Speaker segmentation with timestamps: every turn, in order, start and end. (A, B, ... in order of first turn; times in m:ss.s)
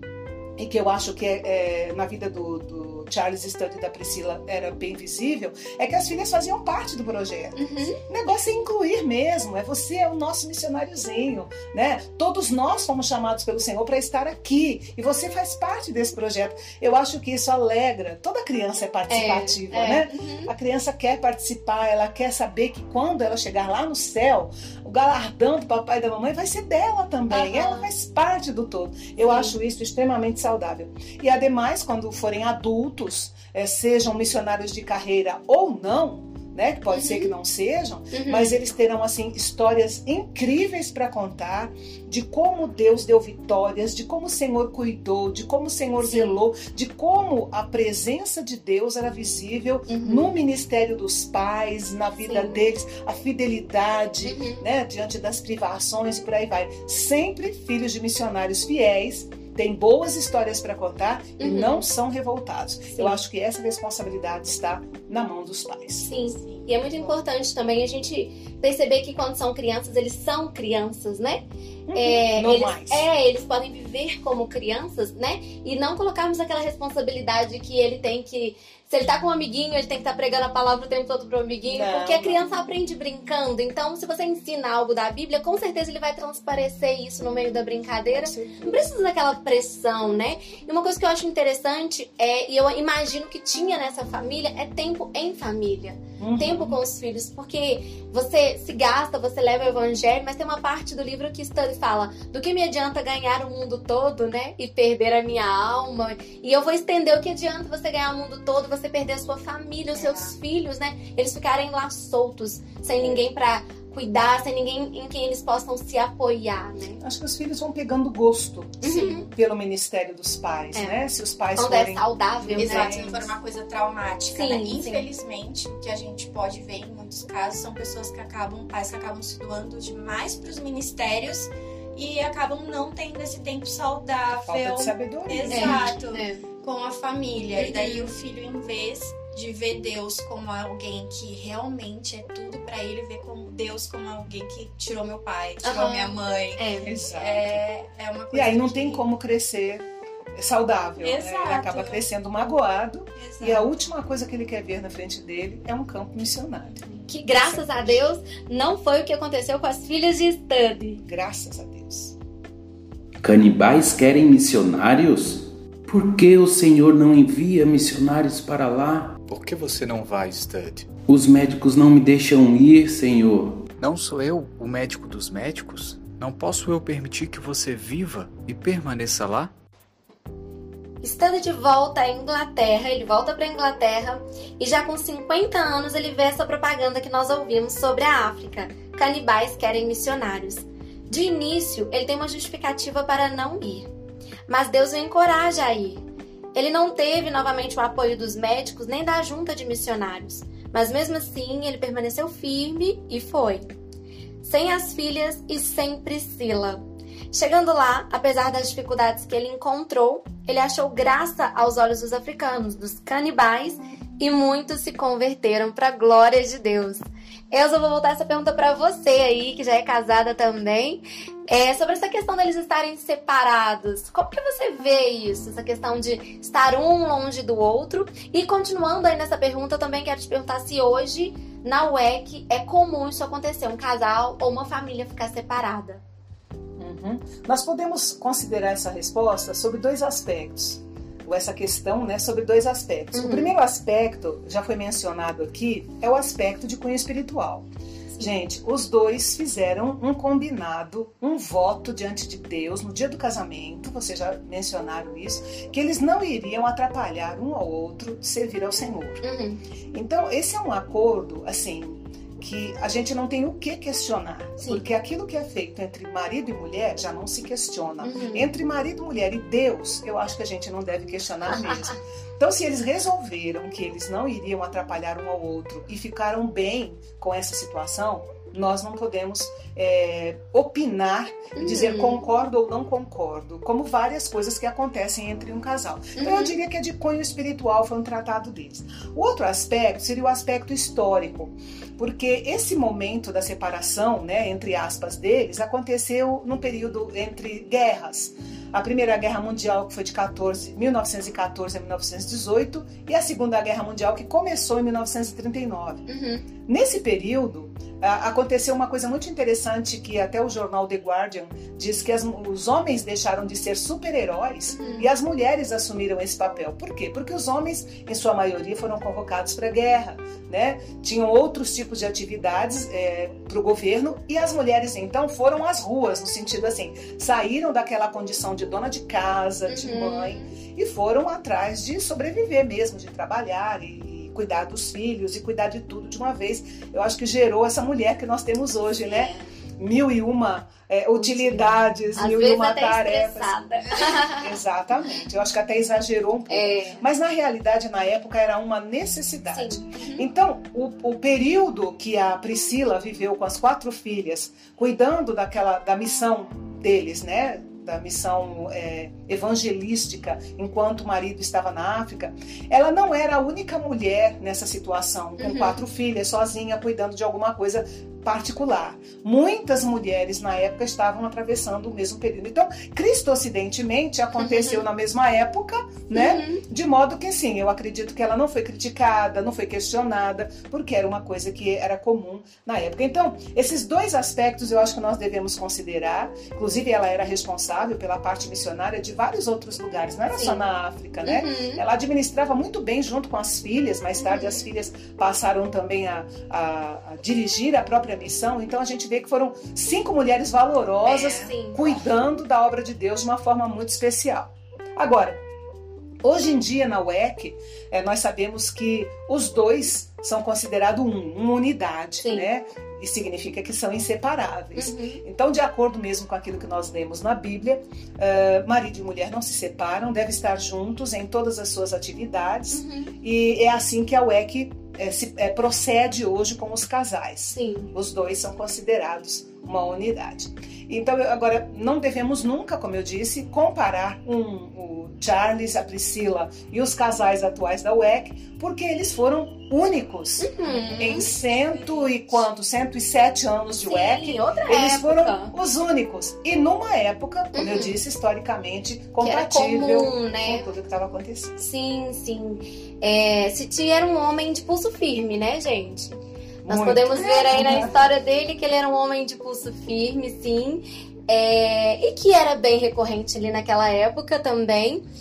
0:00.6-1:06.1 A
0:07.6-0:08.0 B
0:19.1-0:20.5 B
0:27.3-0:27.9 B
0:29.2-0:29.5 B
0:36.9-0:37.3 B
0:38.1-0:38.6 B
0:46.0-0:46.4 B
0:49.9-0:50.3 B
0:52.2-0:52.6 B
0:54.2-0:54.6 B
1:01.4-1:01.9 B
1:06.0-1:11.4 B
1:06.3-1:07.2 C
1:11.9-1:13.1 A
1:11.9-1:57.0 B
1:21.7-1:22.4 A
1:28.1-1:28.8 A
1:36.2-1:36.8 A
1:49.9-1:50.4 C
1:57.0-2:03.3 A
1:58.8-1:59.3 B
1:58.8-1:59.3 C
2:01.6-2:03.0 B
2:02.6-2:29.0 C
2:04.3-2:05.0 B
2:14.5-2:16.0 A
2:15.5-2:16.4 B
2:17.6-2:18.1 B
2:25.6-2:27.0 B
2:26.8-2:27.6 A
2:28.3-2:38.1 A
2:31.0-2:32.0 C
2:33.2-2:33.6 B
2:37.1-2:41.0 B
2:41.1-2:42.2 A
2:43.2-2:49.2 D
2:49.3-2:50.9 E
2:51.1-2:53.7 D
2:53.8-2:59.5 E
3:01.0-3:13.9 B
3:14.5-3:23.7 B
3:24.4-3:56.0 B
3:56.8-4:07.7 A
4:03.1-4:03.5 B
4:08.2-4:19.2 A
4:19.2-4:19.6 B
4:19.9-5:06.1 A
4:28.0-4:28.5 B
4:31.6-4:31.9 B
4:41.6-4:42.2 B
4:46.2-4:46.6 B
5:06.1-5:06.4 B
5:06.6-6:45.4 A
5:14.7-5:15.1 B
5:29.7-5:30.6 B
5:39.1-5:39.4 B
5:41.2-5:41.6 B
5:42.2-5:44.4 B
5:46.5-5:47.0 B
5:49.5-5:50.2 B
6:05.4-6:05.8 B
6:14.3-6:14.8 B
6:16.1-6:16.6 B
6:30.3-6:30.6 B
6:31.2-6:31.8 B
6:34.2-6:34.7 B
6:41.1-6:41.8 B
6:46.2-7:31.6 A
6:54.8-6:55.2 B
7:02.7-7:03.1 B
7:07.5-7:07.9 B
7:20.4-7:21.3 B
7:23.9-7:25.5 B
7:27.5-7:28.0 B
7:29.2-7:30.7 B
7:31.6-7:45.0 B
7:36.6-7:38.1 A